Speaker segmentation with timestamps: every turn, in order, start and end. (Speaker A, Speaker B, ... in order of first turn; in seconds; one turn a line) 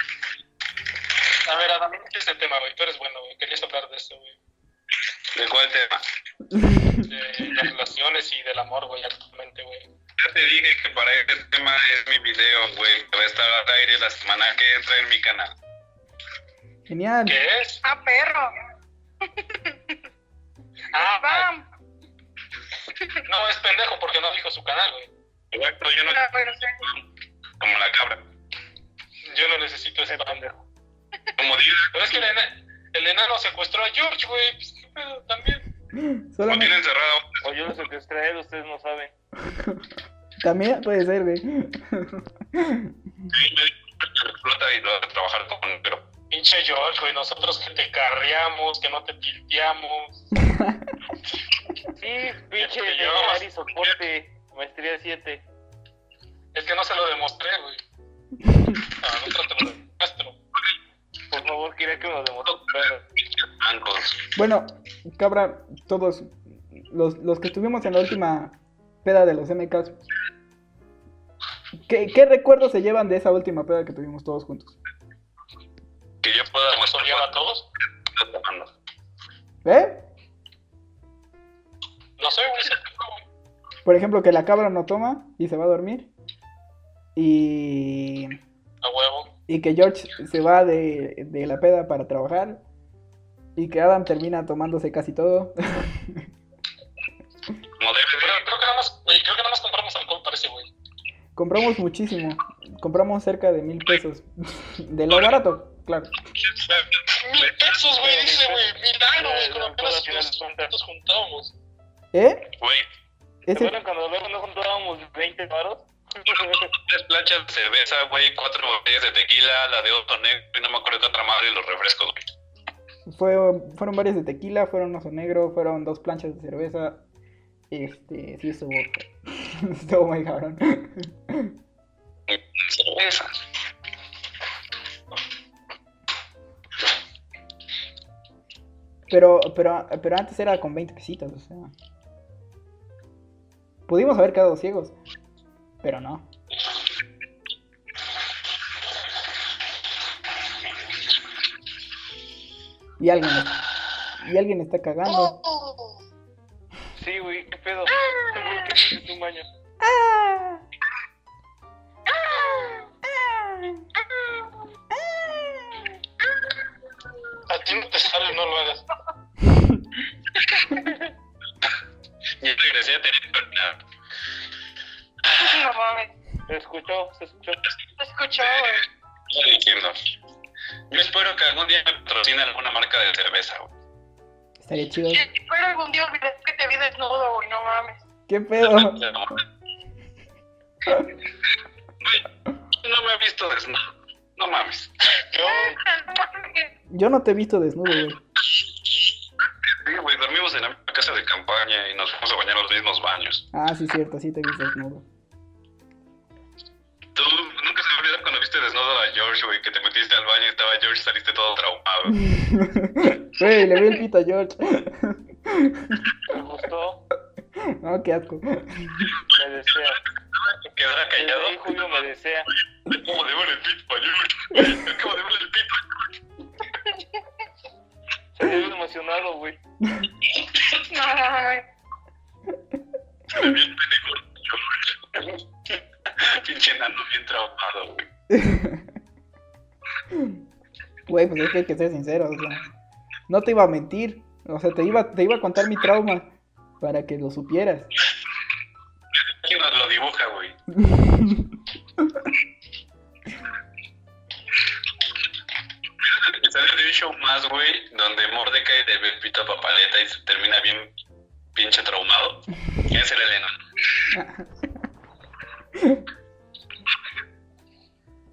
Speaker A: 1.4-4.3
Speaker B: 5.3-6.0
Speaker C: 6.5-7.1
Speaker A: 7.0-9.8
Speaker B: 10.2-15.5
Speaker C: 16.9-17.4
Speaker A: 17.2-17.8
Speaker D: 17.8-18.5
Speaker D: 19.2-20.0
Speaker A: 20.9-21.5
Speaker D: 21.2-21.6
Speaker A: 23.3-25.1
Speaker B: 25.5-26.2
Speaker D: 26.0-26.8
Speaker B: 27.6-28.2
Speaker A: 29.2-30.4
Speaker E: 30.1-30.6
Speaker B: 31.4-31.9
Speaker A: 31.9-35.6
Speaker C: 35.9-36.7
Speaker B: 36.5-37.5
Speaker E: 37.4-39.1
Speaker C: 39.5-39.8
Speaker C: 40.4-42.9
Speaker B: 43.3-46.0
Speaker A: 46.3-50.2
Speaker C: 50.4-50.9
Speaker E: 52.0-55.4
Speaker A: 52.6-53.4
Speaker A: 56.5-57.8
Speaker C: 58.4-58.8
Speaker A: 59.0-60.3
Speaker E: 61.3-63.0
Speaker B: 63.4-64.2
Speaker C: 64.3-70.0
Speaker C: 71.8-74.8
Speaker B: 76.2-77.3
Speaker A: 76.7-77.7
Speaker B: 78.1-78.7
Speaker C: 79.6-80.0
Speaker A: 82.2-83.2
Speaker C: 83.8-86.1
Speaker C: 87.2-88.4
Speaker A: 88.8-89.3
Speaker C: 89.5-92.6
Speaker C: 93.5-96.2
Speaker B: 97.8-98.5
Speaker A: 98.2-100.7
Speaker C: 101.3-106.1
Speaker B: 106.4-107.7
Speaker A: 107.2-111.5
Speaker E: 108.0-110.7
Speaker C: 112.1-112.5
Speaker B: 112.6-112.9
Speaker C: 113.5-113.7
Speaker E: 113.5-116.7
Speaker B: 116.7-122.2
Speaker C: 123.0-127.0
Speaker C: 127.7-131.5
Speaker B: 132.3-133.3
Speaker C: 139.1-141.7
Speaker C: 143.9-144.9
Speaker C: 145.8-146.3
Speaker C: 153.0-153.6
Speaker C: 154.2-155.3
Speaker D: 155.1-155.9
Speaker E: 156.9-159.4
Speaker D: 158.0-158.9
Speaker C: 159.8-160.6
Speaker D: 162.1-162.9
Speaker C: 163.0-163.9
Speaker D: 164.0-164.5
Speaker C: 164.9-165.8
Speaker A: 167.5-168.8
Speaker C: 169.5-169.8
Speaker D: 170.3-171.0
Speaker B: 172.4-173.8
Speaker D: 175.3-176.1
Speaker E: 176.5-177.6
Speaker D: 178.0-178.8
Speaker B: 178.4-178.7
Speaker B: 179.3-179.9
Speaker B: 180.9-183.7
Speaker C: 184.6-185.2
Speaker D: 185.1-188.0
Speaker C: 188.3-189.0
Speaker B: 188.7-189.4
Speaker B: 192.0-192.3
Speaker B: 192.8-193.8
Speaker B: 194.3-194.9
Speaker D: 195.3-196.7
Speaker A: 195.4-195.7
Speaker C: 196.9-198.2
Speaker B: 198.6-199.1
Speaker B: 199.7-203.4
Speaker C: 203.5-205.0
Speaker B: 207.1-212.2
Speaker C: 212.1-216.1
Speaker E: 216.3-217.0
Speaker C: 217.8-219.1
Speaker E: 219.3-220.0
Speaker B: 220.3-222.0
Speaker E: 221.2-222.5
Speaker B: 222.8-225.8
Speaker D: 226.8-227.2
Speaker E: 228.3-229.6
Speaker C: 229.8-230.1
Speaker D: 230.9-231.6
Speaker B: 233.3-238.1
Speaker C: 238.3-238.9
Speaker C: 240.1-240.4
Speaker C: 241.1-242.7
Speaker C: 243.3-247.9
Speaker B: 249.1-250.6
Speaker C: 250.8-251.5
Speaker B: 256.0-260.9
Speaker B: 261.5-263.5
Speaker C: 264.1-264.7
Speaker C: 265.8-266.0